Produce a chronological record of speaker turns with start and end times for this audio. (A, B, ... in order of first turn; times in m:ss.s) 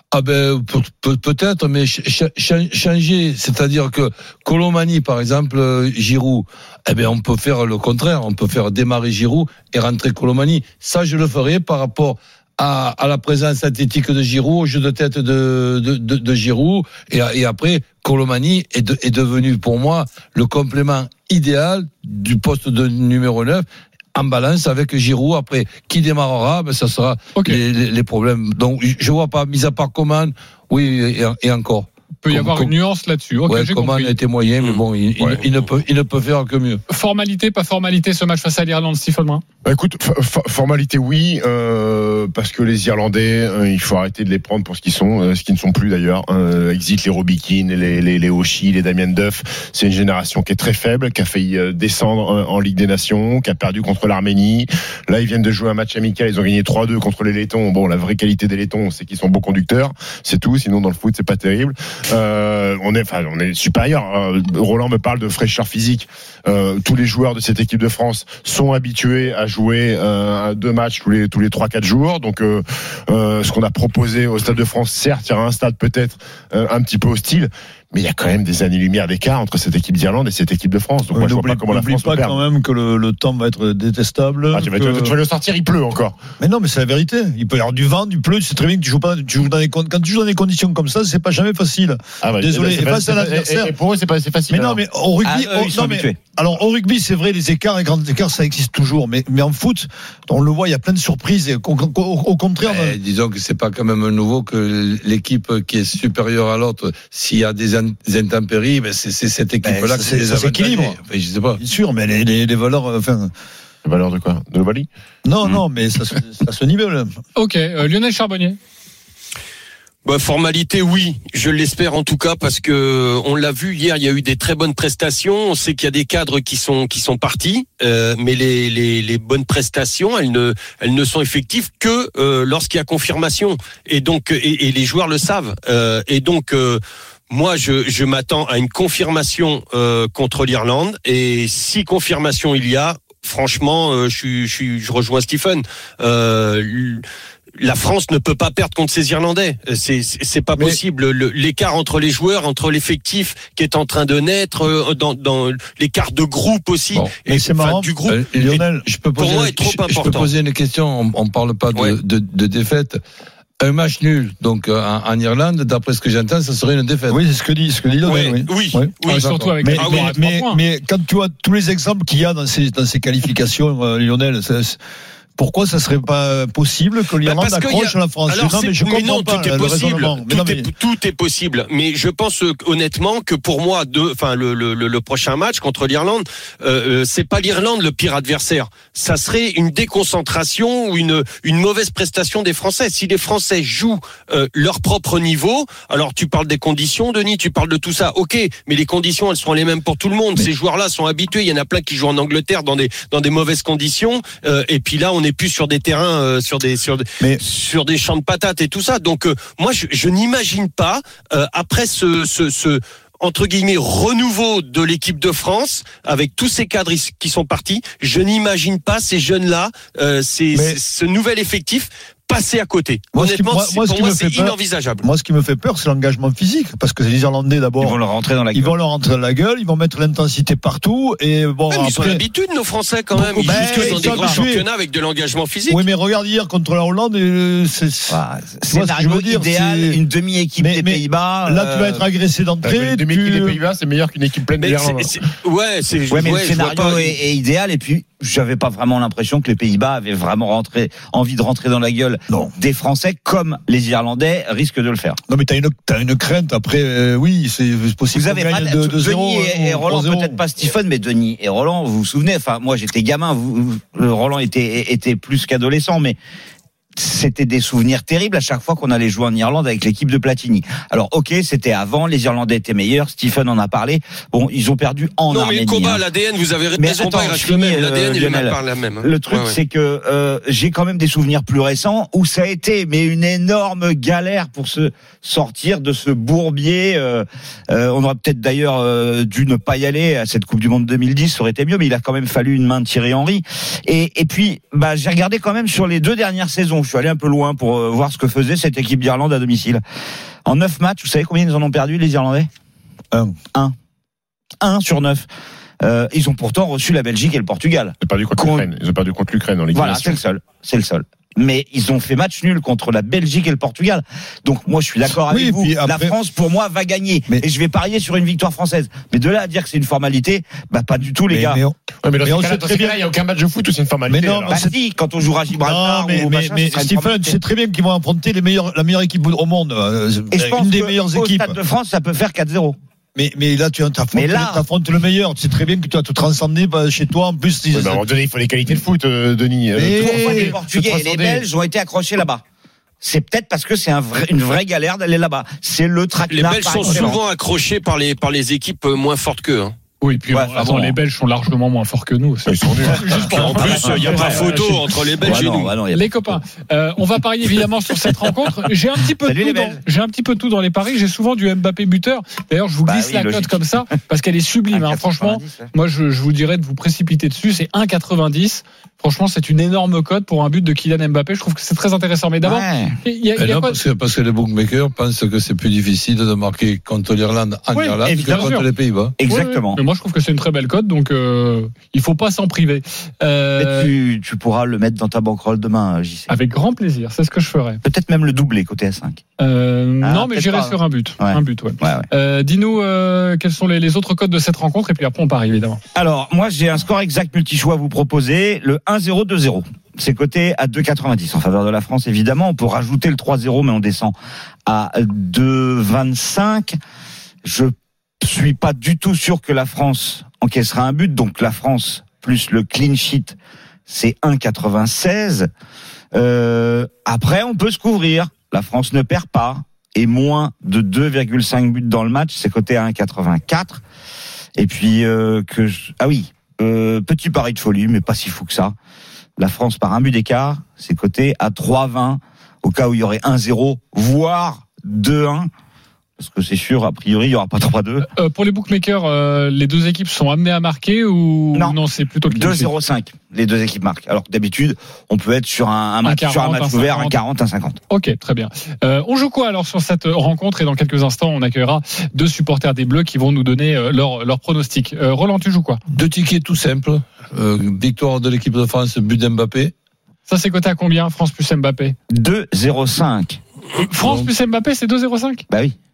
0:00.1-0:32.7 A
0:27.4-0:27.6 B
0:32.2-0:34.2 B
0:33.5-0:36.8 A
0:36.9-0:39.4 B
0:39.6-1:22.4 C
1:21.1-1:25.2 D
1:24.5-1:26.2 C
1:26.4-1:33.7 D
1:32.2-1:34.8 C
1:34.5-1:43.0 D
1:35.2-1:36.2 E
1:42.6-1:51.6 A
1:49.6-1:50.8 E
1:50.0-1:50.9 D
1:51.6-1:53.3 D
1:53.8-1:54.9 C
1:55.2-1:57.1 D
1:57.4-1:58.6 B
2:00.0-2:27.0 F
2:27.6-2:38.6 F
2:37.2-2:38.8 D
2:38.1-2:43.0 A
2:39.2-2:40.3 F
2:43.6-2:47.2 A
2:47.1-2:48.9 D
2:48.0-2:50.2 F
2:49.1-2:50.6 B
2:49.1-2:49.6 A
2:49.6-2:54.8 D
2:55.4-3:00.7 D
2:57.2-3:45.0 F
3:40.5-3:40.8 D
3:43.1-3:48.0 D
3:47.8-3:48.7 E
3:48.5-3:52.2 D
3:51.7-3:55.8 F
3:53.2-3:54.6 D
3:55.7-4:00.0 D
3:58.1-4:02.0 E
4:00.6-4:03.6 D
4:02.6-4:05.2 C
4:04.6-4:07.2 F
4:06.1-4:15.2 E
4:15.3-4:20.4 D
4:18.1-4:26.2 E
4:27.0-4:36.0 E
4:35.3-4:39.6 F
4:36.8-4:59.8 E
5:00.4-5:02.5 E
5:04.6-5:05.2 E
5:05.8-5:08.7 E
5:08.0-5:10.2 C
5:09.7-5:21.6 E
5:15.2-5:16.1 D
5:21.3-5:23.0 D
5:22.0-5:24.6 C
5:24.1-5:24.7 D
5:24.5-5:27.4 E
5:25.6-5:31.6 D
5:30.3-5:32.8 E
5:33.1-5:38.0 D
5:34.1-5:34.6 E
5:37.7-5:41.4 C
5:39.7-5:40.6 D
5:39.9-5:42.4 E
5:43.0-5:47.2 E
5:46.3-5:49.7 F
5:50.0-5:55.4 B
5:50.3-5:51.0 E
5:52.5-5:53.1 C
5:53.0-5:55.7 F
5:53.4-5:54.6 E
5:55.2-5:56.4 E
5:55.9-6:13.8 B
5:59.2-5:59.8 E
6:02.8-6:03.8 E
6:04.7-6:05.7 E
6:12.4-6:13.0 E
6:13.4-6:19.1 A
6:17.7-6:18.7 B
6:18.0-6:18.5 E
6:19.2-6:19.8 E
6:19.2-6:23.9 B
6:23.6-6:26.3 E
6:26.3-6:27.8 B
6:27.8-6:29.2 E
6:29.4-6:35.8 B
6:30.0-6:32.1 E
6:35.9-6:44.1 E
6:44.6-6:46.8 E
6:47.4-6:53.4 E
6:53.9-6:55.5 E
6:56.1-7:03.8 E
7:04.6-7:08.7 E
7:09.4-7:15.5 E
7:16.2-7:18.1 E
7:18.1-7:22.7 B
7:22.3-7:27.8 E
7:26.0-7:27.2 B
7:27.9-7:35.8 B
7:35.9-7:39.7 A
7:40.3-7:42.0 B
7:42.1-7:43.4 E
7:43.8-7:45.4 B
7:44.0-7:44.3 A
7:45.5-7:45.8 E